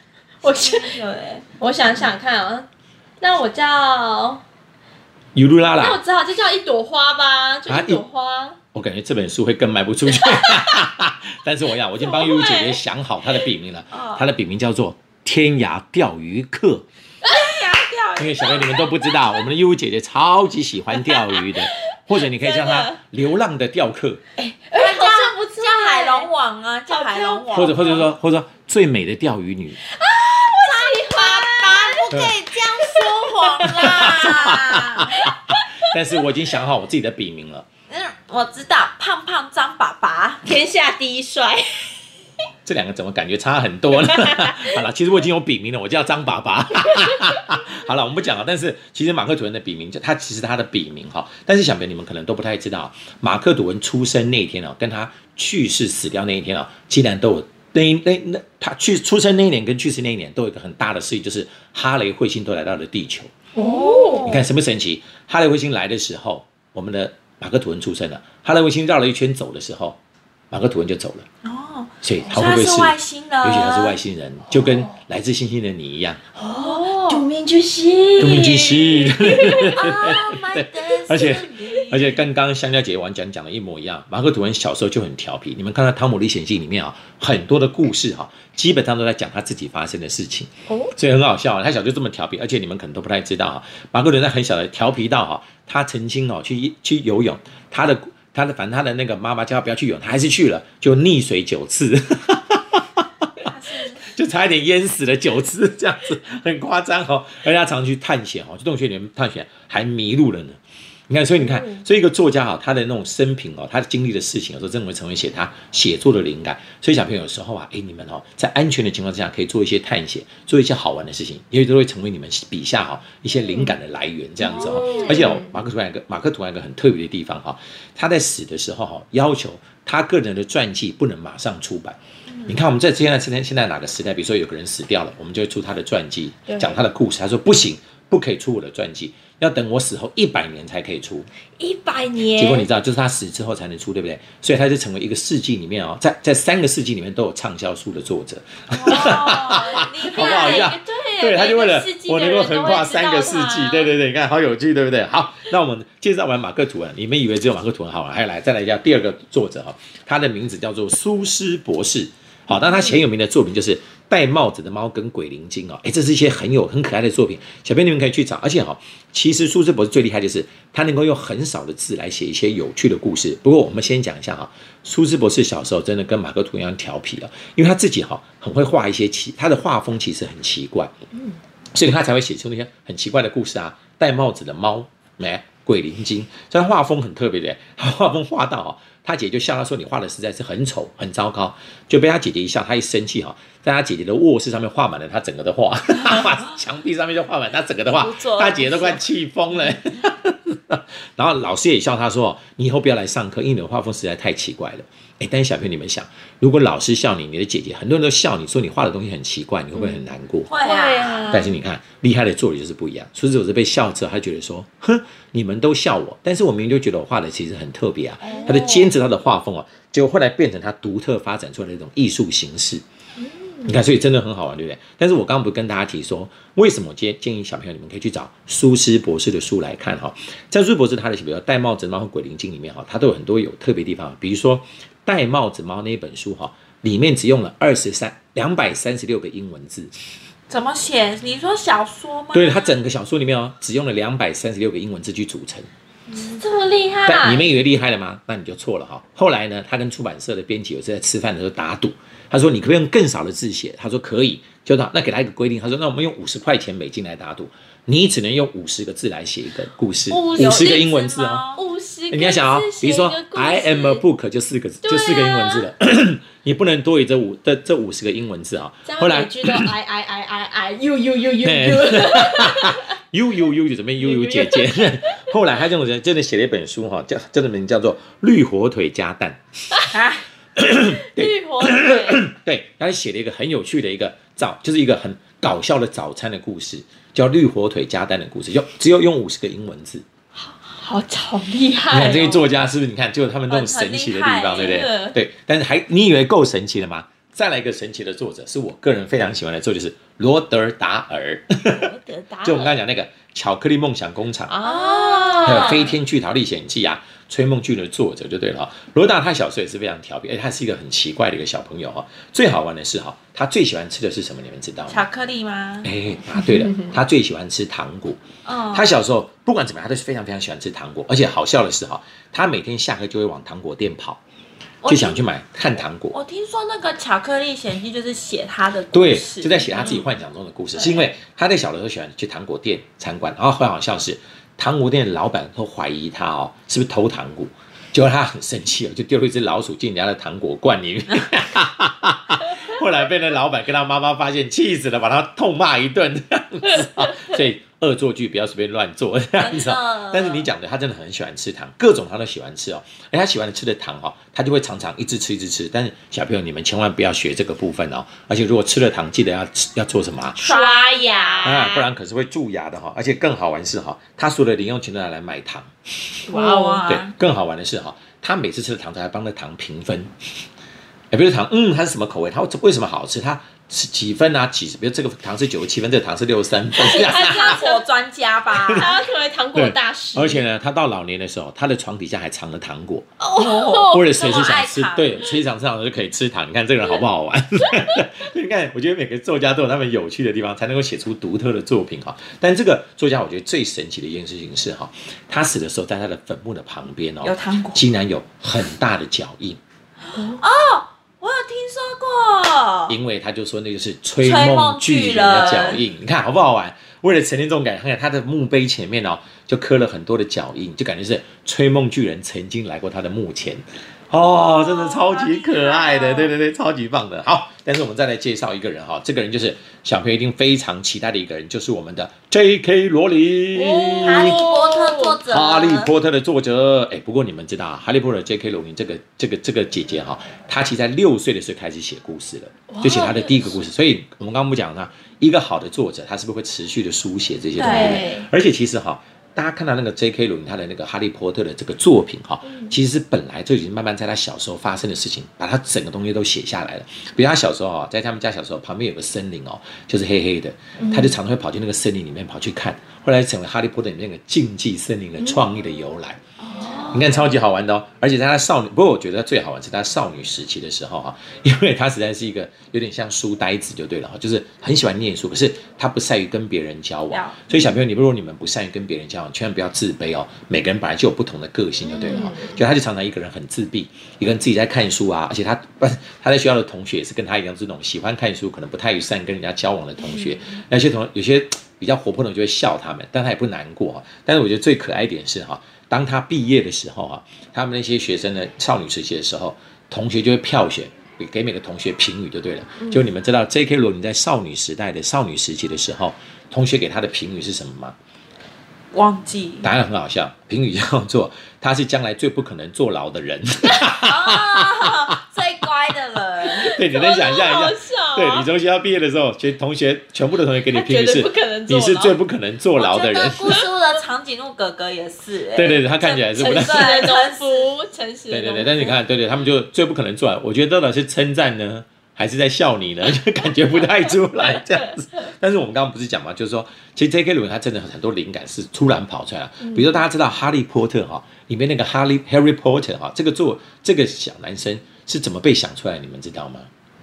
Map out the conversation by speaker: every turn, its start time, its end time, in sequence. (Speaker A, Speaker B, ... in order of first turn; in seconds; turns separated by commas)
Speaker A: 0.4-1.0, Speaker B: 0.4-1.5, Speaker A: 1.6-2.7, Speaker A: 3.2-4.4, Speaker C: 5.3-6.0, Speaker A: 5.8-8.6, Speaker C: 7.7-8.0, Speaker C: 8.7-16.9, Speaker A: 10.3-10.6, Speaker B: 12.3-12.8, Speaker B: 13.9-14.3, Speaker B: 17.2-18.9, Speaker C: 18.2-24.2, Speaker A: 21.1-21.5, Speaker A: 22.4-22.9, Speaker A: 24.4-26.3, Speaker B: 24.7-28.1, Speaker A: 26.9-27.4, Speaker C: 27.5-29.8, Speaker A: 29.9-32.1, Speaker B: 30.5-35.1, Speaker C: 32.1-32.4, Speaker C: 33.6-37.7, Speaker A: 35.1-35.7, Speaker B: 37.9-40.5, Speaker A: 40.5-42.0, Speaker C: 42.6-63.3, Speaker A: 44.0-44.8, Speaker A: 63.5-64.3, Speaker B: 63.6-64.5, Speaker C: 64.2-70.0, Speaker C: 70.5-71.3, Speaker B: 71.4-74.0, Speaker C: 72.0-76.2, Speaker A: 74.6-74.8, Speaker A: 76.4-80.0, Speaker B: 76.6-77.2, Speaker C: 78.2-103.5, Speaker B: 78.2-78.5, Speaker B: 79.6-82.2, Speaker A: 90.7-90.9, Speaker B: 103.4-104.1, Speaker C: 104.1-141.3, Speaker A: 111.4-111.8, Speaker A: 124.4-125.5, Speaker A: 141.6-142.7, Speaker C: 142.4-180.9, Speaker B: 148.7-150.7, Speaker A: 149.6-153.9, Speaker A: 162.6-163.0, Speaker C: 181.7-210.5, Speaker B: 197.9-199.0, Speaker B: 210.5-211.2, Speaker A: 210.6-211.5, Speaker C: 211.2-222.8, Speaker B: 218.2-218.5, Speaker A: 218.3-218.9, Speaker A: 223.2-223.8, Speaker C: 223.6-239.9, Speaker B: 240.5-242.8, Speaker C: 242.3-245.7, Speaker A: 246.1-247.5, Speaker C: 247.1-261.5, Speaker A: 260.1-260.8, Speaker B: 260.4-261.6, Speaker A: 261.5-264.0, Speaker C: 262.1-269.7, Speaker A: 264.8-265.7, Speaker A: 268.9-272.8, Speaker C: 271.4-279.8, Speaker A: 274.0-275.3, Speaker B: 279.9-280.2, Speaker C: 280.6-290.1, Speaker A: 281.0-282.2, Speaker A: 290.4-292.5, Speaker C: 291.9-301.9, Speaker B: 293.5-294.6, Speaker A: 294.5-295.2, Speaker A: 301.7-302.7, Speaker C: 302.4-304.6, Speaker A: 304.5-306.0, Speaker B: 304.7-305.5, Speaker C: 305.4-315.1, Speaker B: 314.9-315.9, Speaker C: 315.8-324.2, Speaker A: 316.5-316.8, Speaker B: 318.4-318.9, Speaker B: 324.8-325.2, Speaker C: 324.9-326.2, Speaker B: 326.1-330.0, Speaker C: 328.9-360.4, Speaker B: 330.8-331.0, Speaker B: 349.4-350.5, Speaker A: 360.4-361.9, Speaker B: 360.4-361.6, Speaker C: 361.4-366.3, Speaker A: 366.3-366.8, Speaker B: 366.3-367.1, Speaker C: 366.9-370.1, Speaker C: 371.1-377.6, Speaker A: 376.8-377.8, Speaker B: 376.9-378.9, Speaker A: 378.8-380.4, Speaker C: 379.5-383.1, Speaker A: 383.2-384.0, Speaker B: 383.4-385.2, Speaker C: 383.8-399.6, Speaker B: 397.2-397.9, Speaker A: 400.1-400.4, Speaker B: 400.3-402.9, Speaker C: 402.9-424.4, Speaker B: 404.2-405.8, Speaker B: 414.5-416.3, Speaker A: 423.6-425.2, Speaker B: 424.0-425.9, Speaker C: 425.2-456.2, Speaker A: 432.7-433.6, Speaker B: 437.6-438.0, Speaker A: 437.6-438.3, Speaker A: 442.4-442.8, Speaker A: 450.8-451.1, Speaker B: 456.4-457.0, Speaker A: 456.6-457.1, Speaker C: 456.8-497.9, Speaker B: 467.1-467.4, Speaker A: 471.8-472.6, Speaker A: 480.0-480.3, Speaker B: 498.9-499.7, Speaker C: 499.6-505.2, Speaker B: 504.0-506.8, Speaker C: 506.6-513.6, Speaker A: 506.8-508.5, Speaker A: 510.7-512.2, Speaker B: 512.8-517.7, Speaker A: 513.4-513.7, Speaker C: 515.5-516.8, Speaker A: 516.0-519.0, Speaker C: 518.3-536.7, Speaker A: 529.6-530.0